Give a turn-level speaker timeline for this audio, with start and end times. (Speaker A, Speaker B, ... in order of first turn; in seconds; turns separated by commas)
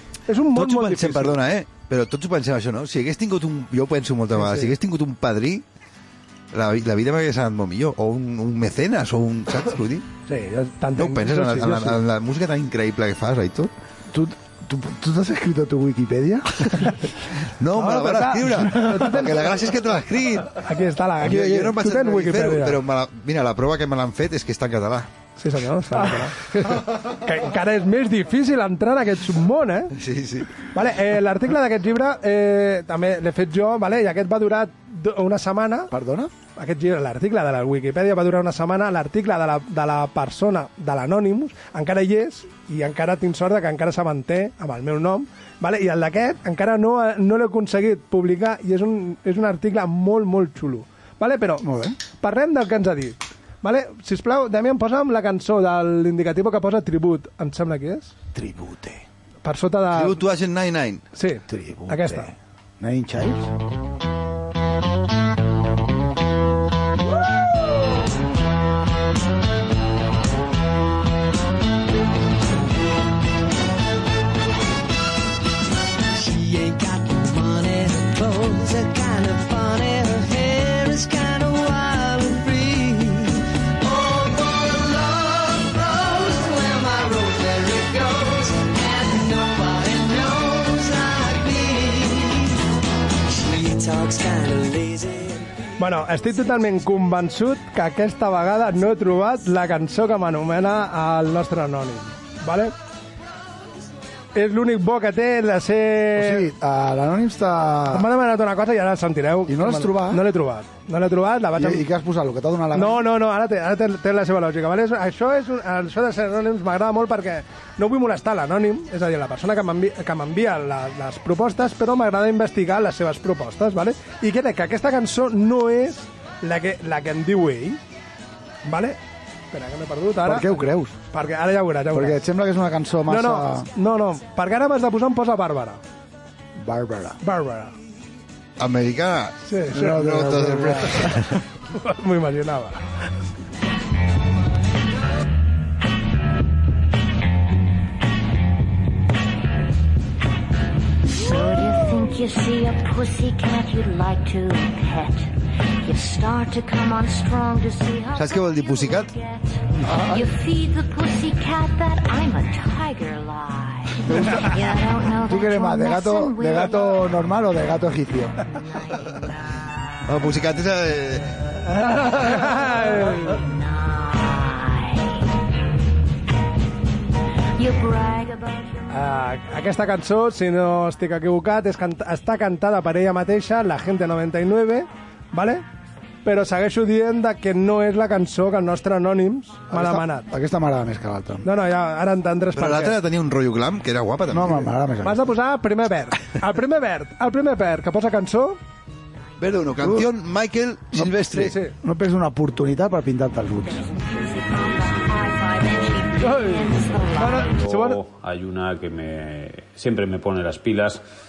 Speaker A: 0.3-1.4, Speaker B: 0.5-5.6, Speaker A: 4.3-4.7, Speaker B: 6.5-10.1, Speaker A: 10.3-12.0, Speaker B: 10.9-13.7, Speaker C: 14.1-17.0, Speaker B: 17.4-20.6, Speaker A: 17.7-19.5, Speaker A: 20.6-22.8, Speaker B: 21.2-25.1, Speaker A: 25.4-29.9, Speaker B: 29.9-30.6, Speaker A: 30.7-35.9, Speaker C: 35.9-36.3, Speaker A: 36.5-58.1, Speaker C: 51.6-52.0, Speaker C: 58.3-59.0, Speaker A: 59.4-60.2, Speaker B: 59.9-61.0, Speaker A: 61.1-62.3, Speaker C: 61.5-63.5, Speaker D: 76.1-92.6, Speaker D: 93.4-95.5, Speaker A: 95.8-102.7, Speaker A: 104.3-106.5, Speaker C: 106.1-108.1, Speaker A: 107.9-111.8, Speaker C: 109.5-110.2, Speaker C: 111.5-113.1, Speaker A: 112.7-127.8, Speaker A: 128.6-129.0, Speaker A: 129.5-132.2, Speaker C: 130.2-130.9, Speaker C: 131.9-133.7, Speaker A: 133.1-135.8, Speaker C: 136.6-137.2, Speaker A: 137.2-137.7, Speaker B: 138.6-141.4, Speaker A: 139.4-140.1, Speaker C: 139.7-141.3, Speaker A: 140.7-141.2, Speaker A: 141.7-142.9, Speaker E: 151.1-167.1, Speaker B: 158.1-159.1, Speaker C: 159.8-160.3, Speaker C: 164.1-164.5, Speaker C: 165.2-168.4, Speaker E: 168.5-169.7, Speaker B: 170.1-171.4, Speaker A: 171.9-173.4, Speaker E: 172.4-175.1, Speaker E: 177.6-178.9, Speaker A: 178.9-185.6, Speaker A: 186.2-190.3, Speaker C: 189.7-191.5, Speaker A: 191.4-193.0, Speaker B: 192.5-194.7, Speaker C: 194.3-195.3, Speaker A: 195.0-198.6, Speaker B: 199.4-201.5, Speaker C: 199.8-200.1, Speaker C: 200.9-203.9, Speaker A: 201.3-201.7, Speaker E: 203.7-207.6, Speaker A: 206.2-208.0, Speaker F: 207.4-211.0